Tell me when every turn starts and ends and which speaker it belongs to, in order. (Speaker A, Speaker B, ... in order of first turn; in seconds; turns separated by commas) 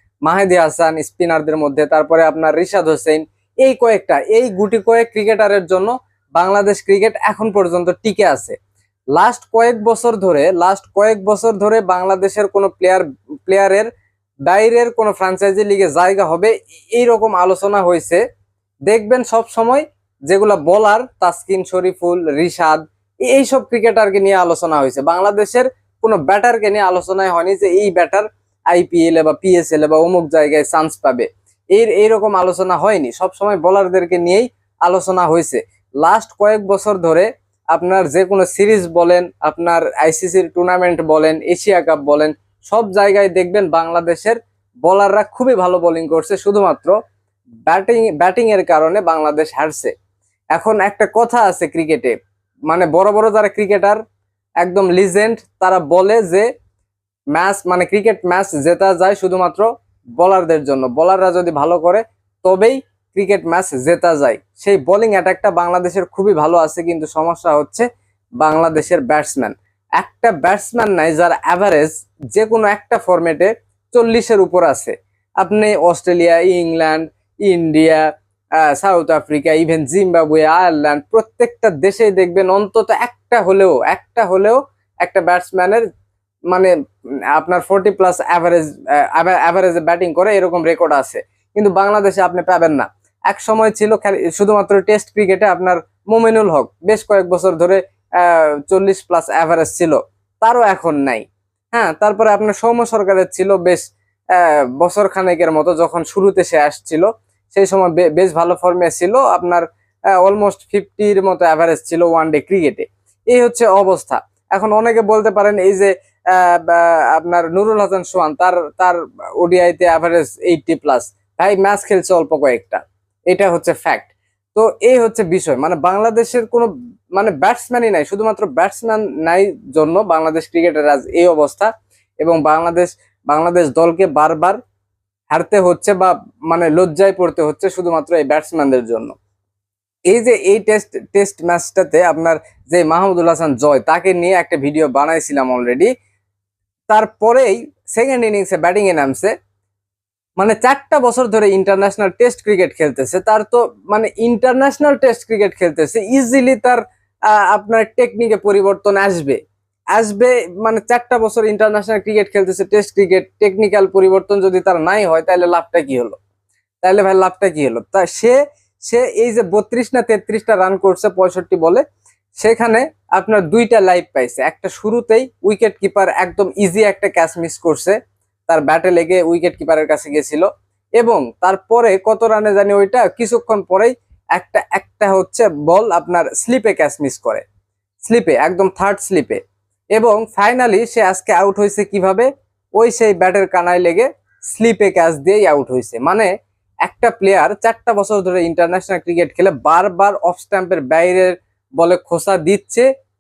Speaker A: 0.2-8.6, Speaker A: 9.1-13.9, Speaker A: 14.5-18.2, Speaker A: 18.9-47.0, Speaker A: 47.7-49.9, Speaker A: 50.5-52.1, Speaker A: 52.7-54.0, Speaker A: 54.6-56.5, Speaker A: 57.3-67.9, Speaker A: 68.4-78.1, Speaker A: 78.6-85.8, Speaker A: 87.3-109.6, Speaker A: 110.2-131.7, Speaker A: 132.2-134.6, Speaker A: 135.3-139.1, Speaker A: 140.1-145.9, Speaker A: 146.9-149.3, Speaker A: 150.4-159.4, Speaker A: 159.9-166.2, Speaker A: 166.8-171.8, Speaker A: 172.4-178.0, Speaker A: 178.5-187.4, Speaker A: 188.0-189.4, Speaker A: 189.9-196.3, Speaker A: 196.8-202.9